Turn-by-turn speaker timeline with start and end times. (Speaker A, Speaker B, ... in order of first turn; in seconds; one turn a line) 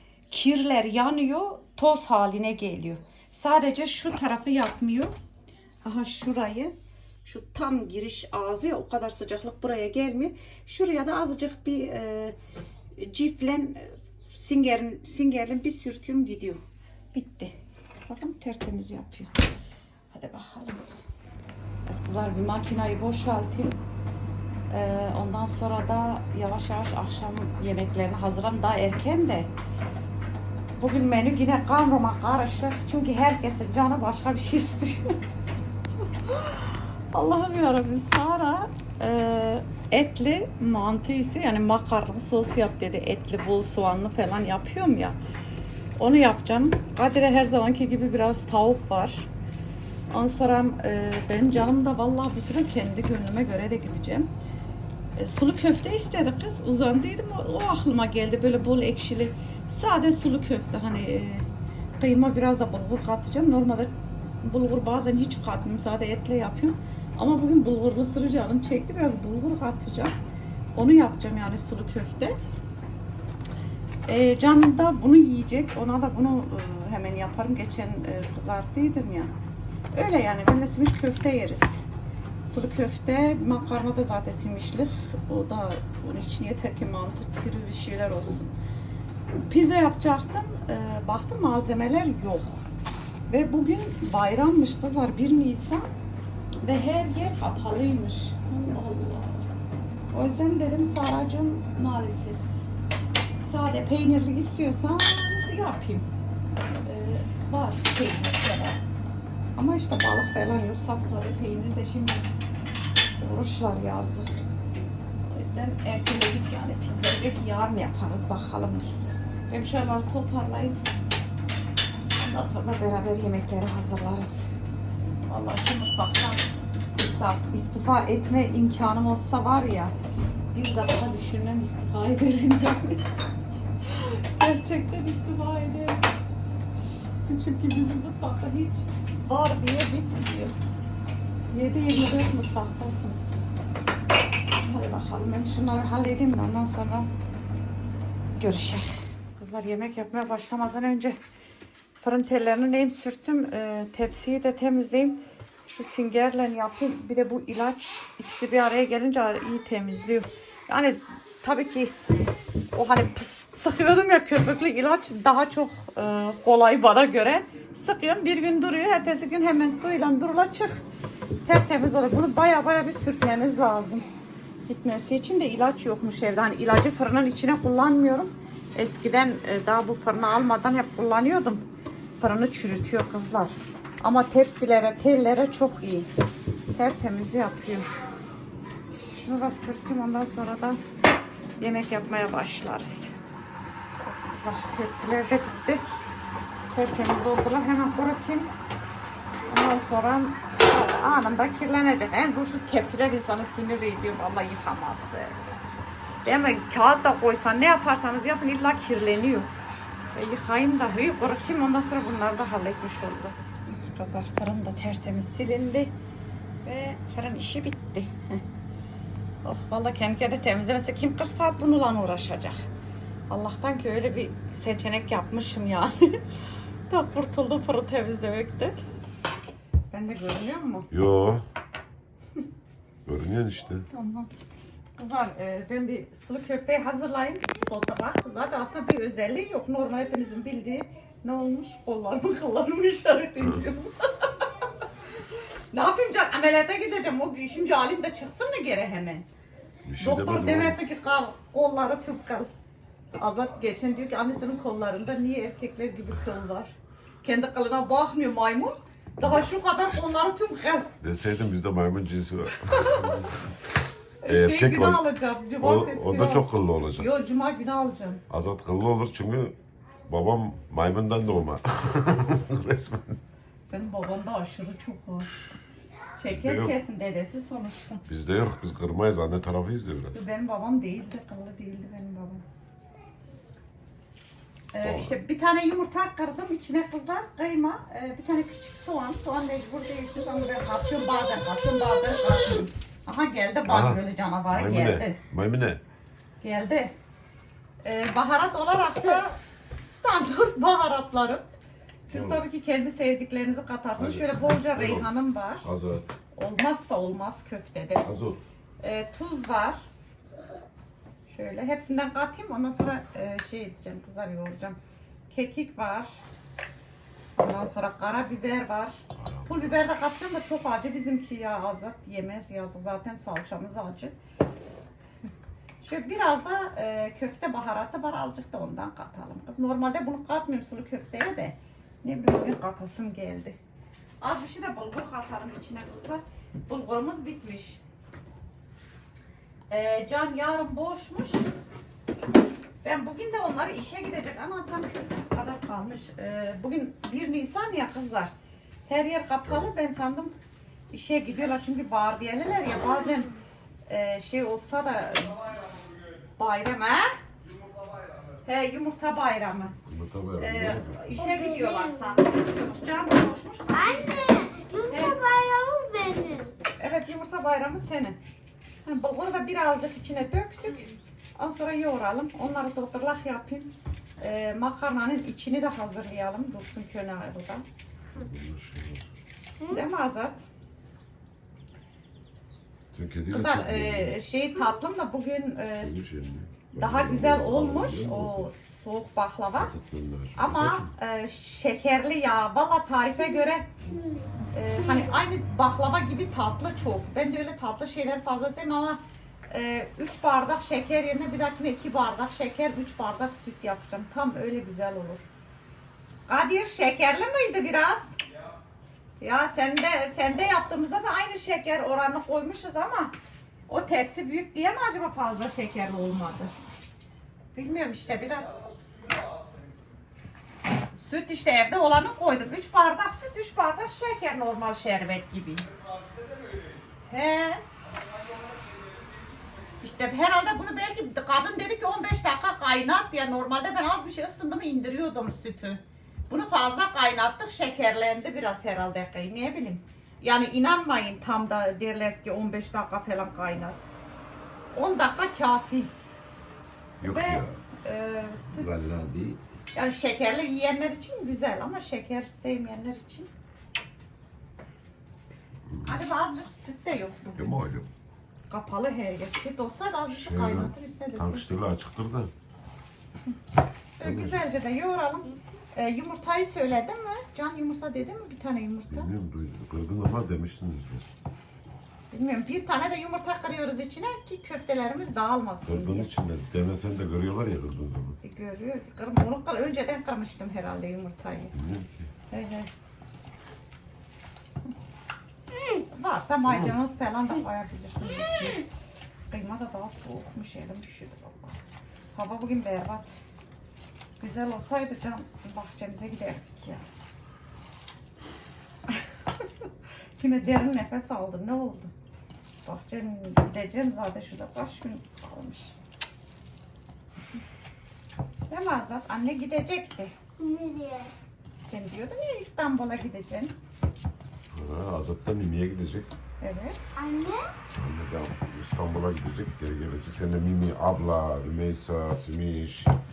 Speaker A: 0.3-5.1
Speaker A: 5.8-6.7
Speaker A: 7.2-12.3
Speaker A: 13.0-16.6
Speaker A: 17.1-17.5
Speaker A: 18.1-19.3
Speaker A: 20.1-20.8
Speaker A: 21.9-23.8
Speaker A: 24.7-29.5
Speaker A: 30.8-35.2
Speaker A: 36.2-45.1
Speaker A: 46.0-49.3
Speaker A: 50.1-54.3
Speaker A: 55.1-61.5
Speaker A: 62.0-70.1
Speaker A: 70.7-72.3
Speaker A: 74.1-79.3
Speaker A: 79.9-81.8
Speaker A: 82.4-88.5
Speaker A: 89.3-92.6
Speaker A: 93.3-95.9
Speaker A: 96.6-99.5
Speaker A: 100.1-102.4
Speaker A: 103.4-106.1
Speaker A: 106.8-108.8
Speaker A: 109.5-112.3
Speaker A: 113.2-114.3
Speaker A: 115.3-120.8
Speaker A: 122.1-124.5
Speaker A: 125.3-126.4
Speaker A: 127.0-129.9
Speaker A: 130.5-133.0
Speaker A: 133.8-136.0
Speaker A: 137.3-140.5
Speaker A: 141.5-143.4
Speaker A: 144.6-147.1
Speaker A: 148.3-151.2
Speaker A: 152.0-161.9
Speaker A: 162.7-170.8
Speaker A: 171.4-174.1
Speaker A: 174.7-181.7
Speaker A: 182.2-186.1
Speaker A: 186.7-187.9
Speaker A: 188.9-190.8
Speaker A: 191.6-193.1
Speaker A: 194.0-195.8
Speaker A: 196.7-198.5
Speaker A: 199.5-205.3
Speaker A: 206.2-209.5
Speaker A: 210.1-215.9
Speaker A: 216.6-218.4
Speaker A: 219.4-222.6
Speaker A: 223.3-226.2
Speaker A: 226.9-228.8
Speaker A: 229.9-230.9
Speaker B: 230.9-231.4
Speaker B: 233.0-233.8
Speaker A: 233.9-234.3
Speaker A: 235.0-244.5
Speaker A: 245.7-249.2
Speaker B: 249.8-250.8
Speaker A: 250.0-252.5
Speaker A: 253.2-260.9
Speaker B: 259.2-260.1
Speaker B: 261.0-263.4
Speaker A: 262.7-263.1
Speaker A: 264.2-266.5
Speaker B: 264.3-265.0
Speaker B: 265.6-267.1
Speaker A: 267.0-268.2
Speaker B: 268.3-269.6
Speaker B: 270.1-273.2
Speaker A: 273.6-275.3
Speaker A: 276.2-278.0
Speaker B: 276.3-276.7
Speaker B: 278.1-280.2
Speaker A: 280.1-282.4
Speaker A: 284.7-295.2
Speaker B: 284.8-285.1
Speaker B: 293.7-295.8
Speaker A: 296.4-296.9
Speaker A: 297.8-301.4
Speaker A: 302.1-305.7
Speaker B: 302.1-302.4
Speaker B: 304.0-305.1
Speaker B: 305.6-306.1
Speaker A: 306.3-308.1
Speaker B: 308.0-308.4
Speaker A: 308.8-309.8
Speaker A: 311.3-314.8
Speaker A: 315.3-316.2
Speaker A: 317.4-324.1
Speaker B: 319.1-319.9
Speaker A: 325.8-333.6
Speaker A: 334.2-337.8
Speaker A: 339.7-341.5
Speaker A: 342.8-348.3
Speaker A: 348.9-350.3
Speaker B: 349.4-349.7
Speaker A: 350.9-353.3
Speaker A: 353.9-355.5
Speaker A: 356.4-357.1
Speaker A: 358.4-359.7
Speaker B: 359.9-361.0
Speaker A: 360.4-365.2
Speaker C: 361.2-362.2
Speaker C: 363.7-366.5
Speaker A: 366.8-368.2
Speaker A: 368.9-377.6
Speaker B: 378.1-379.0
Speaker A: 379.7-380.4
Speaker B: 382.9-384.2
Speaker A: 383.3-385.9
Speaker B: 385.8-388.5
Speaker A: 386.7-389.7
Speaker B: 389.5-390.9
Speaker A: 390.4-393.7
Speaker C: 393.8-395.1
Speaker A: 394.5-405.2
Speaker A: 406.3-408.2
Speaker A: 409.2-413.1
Speaker A: 413.7-416.5
Speaker A: 417.5-418.7
Speaker A: 420.9-425.7
Speaker A: 427.1-427.6
Speaker A: 429.8-443.8
Speaker A: 444.7-445.9
Speaker B: 447.0-447.6
Speaker A: 447.0-448.9
Speaker B: 448.5-449.4
Speaker A: 449.7-453.3
Speaker B: 455.7-455.9
Speaker A: 455.8-457.6
Speaker B: 457.4-457.9
Speaker A: 458.5-461.6
Speaker B: 460.1-462.3
Speaker A: 464.0-469.1
Speaker B: 464.0-464.4
Speaker B: 468.9-471.1
Speaker A: 472.1-476.1
Speaker B: 475.6-478.2
Speaker A: 478.2-481.5
Speaker B: 481.5-482.1
Speaker A: 482.3-482.7
Speaker A: 485.9-488.6
Speaker B: 486.5-486.7
Speaker A: 489.3-491.5
Speaker A: 492.1-493.1
Speaker A: 494.2-496.8
Speaker A: 500.2-501.9
Speaker A: 502.6-505.7
Speaker A: 508.5-510.1
Speaker C: 510.4-511.1
Speaker A: 511.7-513.5
Speaker B: 514.5-516.1
Speaker A: 516.4-516.8
Speaker C: 517.0-517.5
Speaker B: 517.7-523.0